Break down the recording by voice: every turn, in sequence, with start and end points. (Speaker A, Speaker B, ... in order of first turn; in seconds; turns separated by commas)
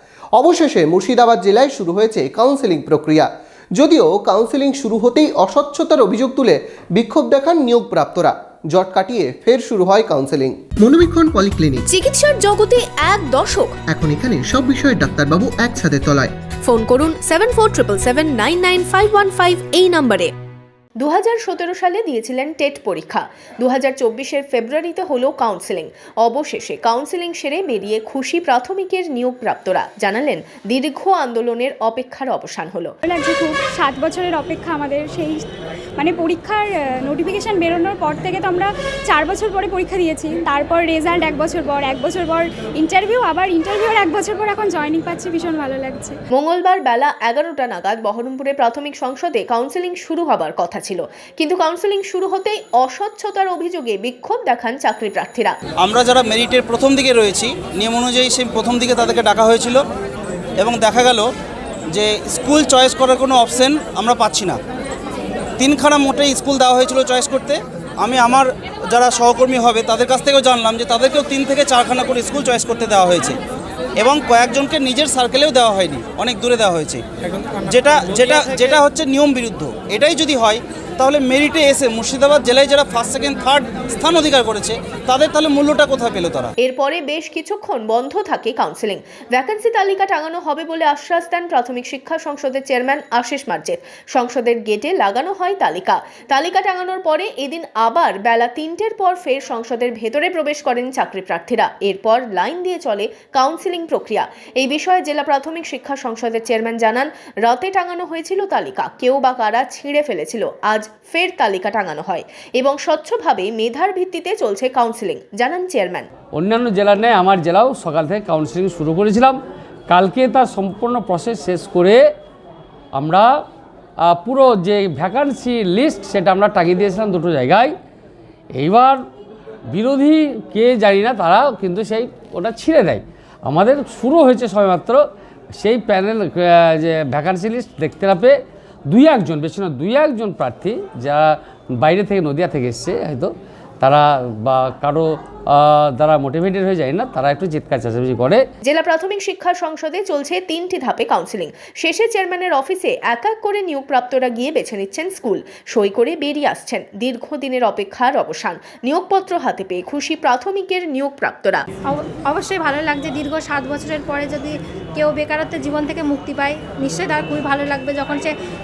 Speaker A: 0.4-11.9, Speaker B: 11.9-13.8, Speaker A: 13.9-16.3, Speaker B: 16.6-20.3, Speaker B: 21.0-32.9, Speaker C: 33.0-35.4, Speaker C: 36.0-46.1, Speaker B: 46.3-55.5, Speaker D: 55.8-59.8, Speaker D: 60.6-61.3, Speaker D: 61.9-64.6, Speaker D: 65.6-73.4, Speaker D: 74.0-77.0, Speaker D: 77.6-86.5, Speaker B: 86.6-116.1, Speaker E: 116.3-119.4, Speaker E: 119.9-122.0, Speaker E: 122.9-123.3, Speaker E: 124.0-127.7, Speaker E: 128.5-129.0, Speaker E: 129.7-135.0, Speaker E: 135.6-138.3, Speaker E: 138.9-141.2, Speaker E: 141.8-148.4, Speaker B: 148.6-161.6, Speaker F: 161.9-168.3